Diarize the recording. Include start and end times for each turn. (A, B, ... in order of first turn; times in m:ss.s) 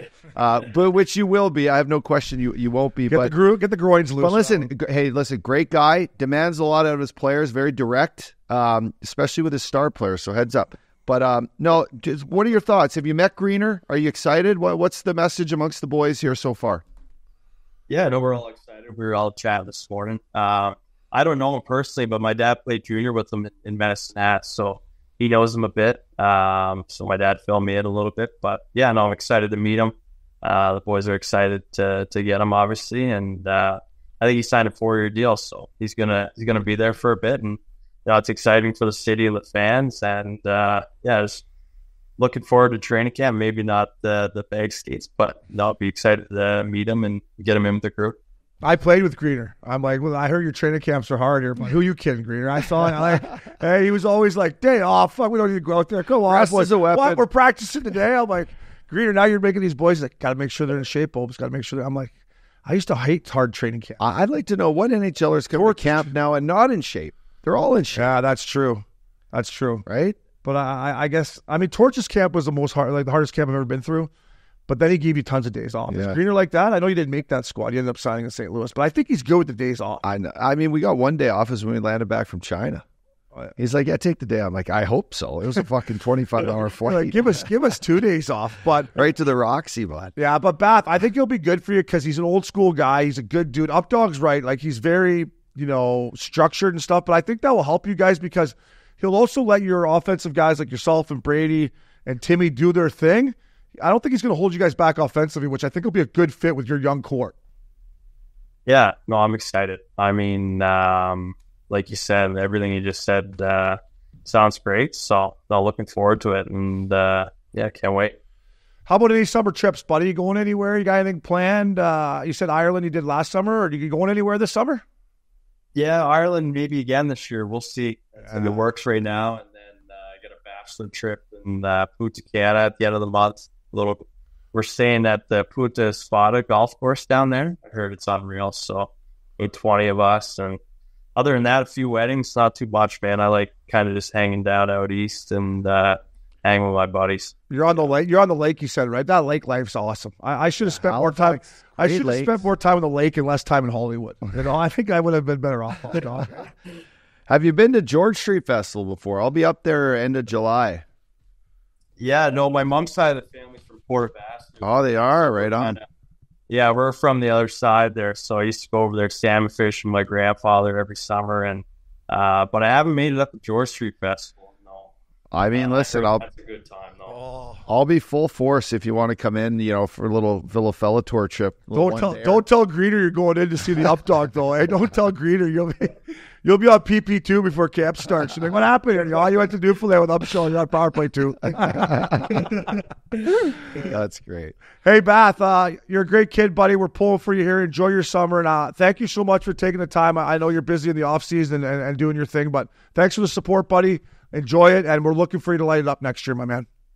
0:00.3-0:03.3 A
0:03.1-0:04.7 B
0:04.2-0:16.8 A
0:17.9-0:41.4 C
0:42.2-0:48.2 C
0:48.6-1:02.1 B
0:56.3-0:57.2 A
1:02.6-1:04.0 B
1:04.0-1:08.1 A
1:05.5-1:06.1 B
1:07.9-1:09.8 B
1:09.9-1:10.2 A
1:10.4-1:14.1 B
1:14.7-1:20.0 B
1:15.9-1:16.2 A
1:20.0-1:22.8 A
1:23.6-1:27.4 A
1:26.8-1:28.9 B
1:28.9-1:30.1 A
1:30.2-1:47.4 B
1:48.7-1:58.2 C
1:58.9-2:04.8 B
2:05.8-2:20.6 C
2:21.2-2:27.4 C
2:27.5-2:36.4 B
2:30.6-2:32.4 A
2:37.3-2:40.8 A
2:42.0-2:45.8 C
2:44.6-2:45.8 A
2:46.5-2:54.9 C
2:55.3-2:56.3 A
2:55.5-2:57.2 C
2:57.1-2:57.6 B
2:57.7-3:02.4 A
3:01.7-3:12.8 B
3:11.7-3:12.4 A
3:13.7-3:14.6 A
3:14.8-3:26.7 B